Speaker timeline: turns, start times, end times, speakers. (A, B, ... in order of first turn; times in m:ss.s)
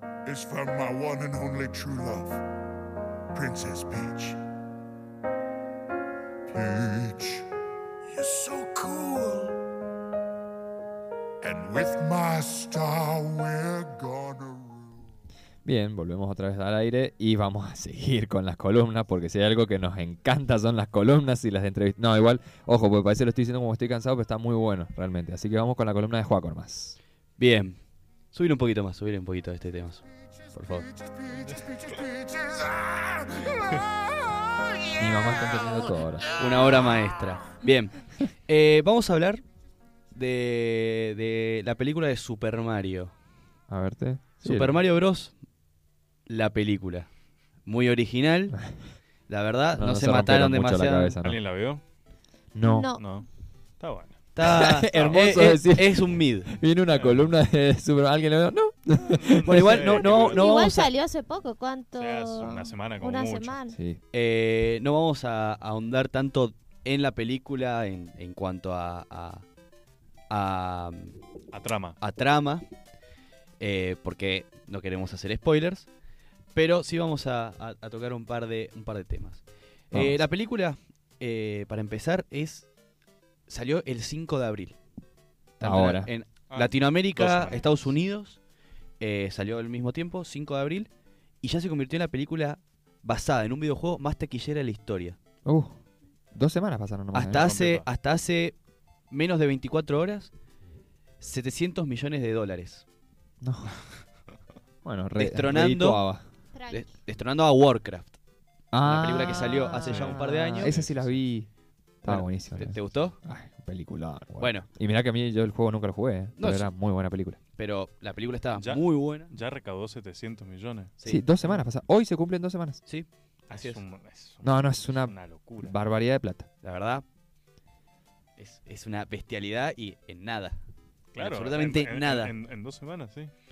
0:00.2-0:02.5 A
0:03.3-0:04.4 A
0:06.5-0:07.5 A
0:08.1-0:09.6 A
0:11.4-0:15.0 A
0:15.6-0:27.0 B
0:27.4-0:27.8 C
0:28.3-0:30.9 C
0:30.7-0:35.8 A
0:35.0-0:36.4 B
0:36.4-0:39.4 C
0:40.1-0:43.1 C
0:43.7-0:44.8 B
0:44.4-0:45.3 C
0:46.3-0:47.1 C
0:47.7-0:48.6 C
0:49.3-0:51.2 C
0:49.8-0:51.4 B
0:51.2-0:51.8 D
0:52.6-0:52.9 B
0:52.6-0:53.1 E
0:53.0-0:53.3 D
0:53.8-0:54.2 D
0:54.4-0:56.5 C
0:54.4-1:00.3 B
0:54.9-0:55.4 D
0:57.0-0:57.3 D
0:59.1-1:00.5 D
0:59.4-1:00.9 C
1:00.3-1:03.8 E
1:02.0-1:03.6 D
1:02.4-1:02.8 B
1:03.7-1:04.0 B
1:04.1-1:09.4 C
1:10.3-1:11.2 C
1:11.5-1:12.0 D
1:12.0-1:12.6 C
1:13.6-1:15.9 C
1:16.6-1:22.7 C
1:19.9-1:20.2 B
1:23.5-1:24.8 C
1:25.6-1:28.4 C
1:25.6-1:26.1 B
1:26.5-1:27.9 D
1:29.0-1:30.9 C
1:31.4-1:35.2 C
1:35.4-1:35.8 B
1:36.3-1:37.5 B
1:37.1-1:38.6 C
1:37.4-1:37.9 D
1:39.1-1:40.3 C
1:41.2-1:42.8 C
1:43.4-1:43.8 B
1:44.8-1:46.2 B
1:45.2-1:46.0 C
1:46.5-1:46.9 E
1:46.7-1:48.2 C
1:48.7-1:51.5 B
1:48.8-1:50.7 C
1:49.2-1:49.8 E
1:49.7-1:51.2 D
1:52.0-1:57.4 B
1:52.1-1:53.2 C
1:54.4-1:54.7 C
1:56.4-1:56.7 C
1:57.6-1:59.3 C
1:58.6-2:01.4 D
2:01.0-2:01.6 C
2:01.0-2:02.8 B
2:02.8-2:03.8 C
2:03.5-2:05.8 D
2:04.4-2:06.5 B
2:06.6-2:07.0 C
2:08.4-2:10.6 C
2:11.1-2:13.3 D
2:11.2-2:12.3 C